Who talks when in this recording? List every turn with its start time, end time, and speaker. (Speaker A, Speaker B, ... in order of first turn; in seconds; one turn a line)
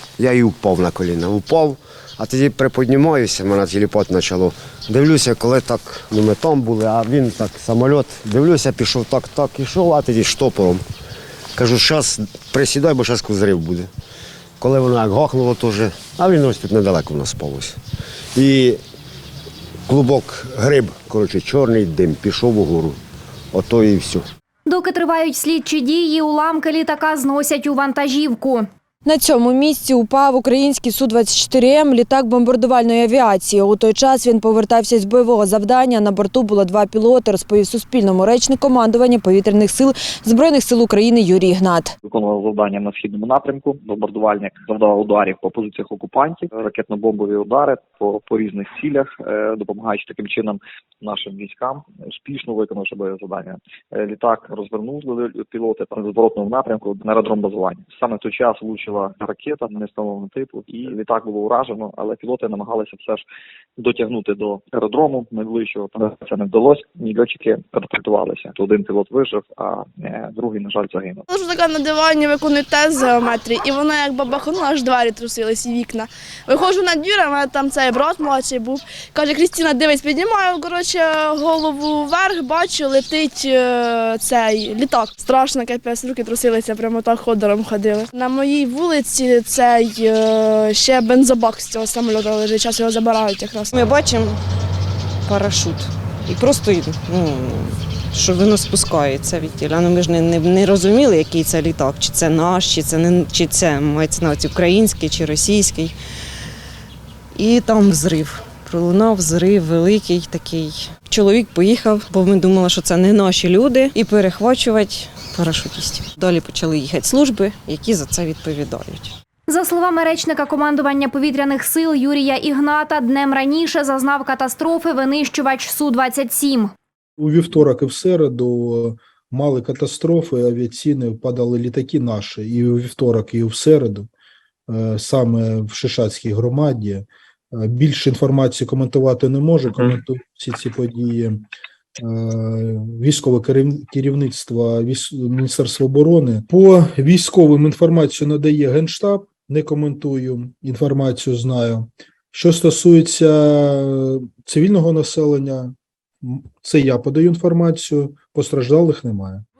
Speaker A: 0.2-10.8
Speaker A: 11.6-13.9
Speaker A: 14.6-17.8
Speaker A: 18.3-18.8
Speaker A: 19.9-23.0
Speaker A: 23.5-24.2
Speaker B: 24.6-28.7
Speaker C: 29.0-41.9
Speaker D: 42.0-63.2
Speaker D: 63.8-71.2
Speaker E: 71.3-93.6
Speaker F: 93.7-94.4
Speaker F: 95.3-105.9
Speaker F: 107.3-119.1
Speaker B: 119.5-126.7
Speaker G: 127.2-134.1
Speaker G: 134.7-141.4
Speaker G: 142.0-159.4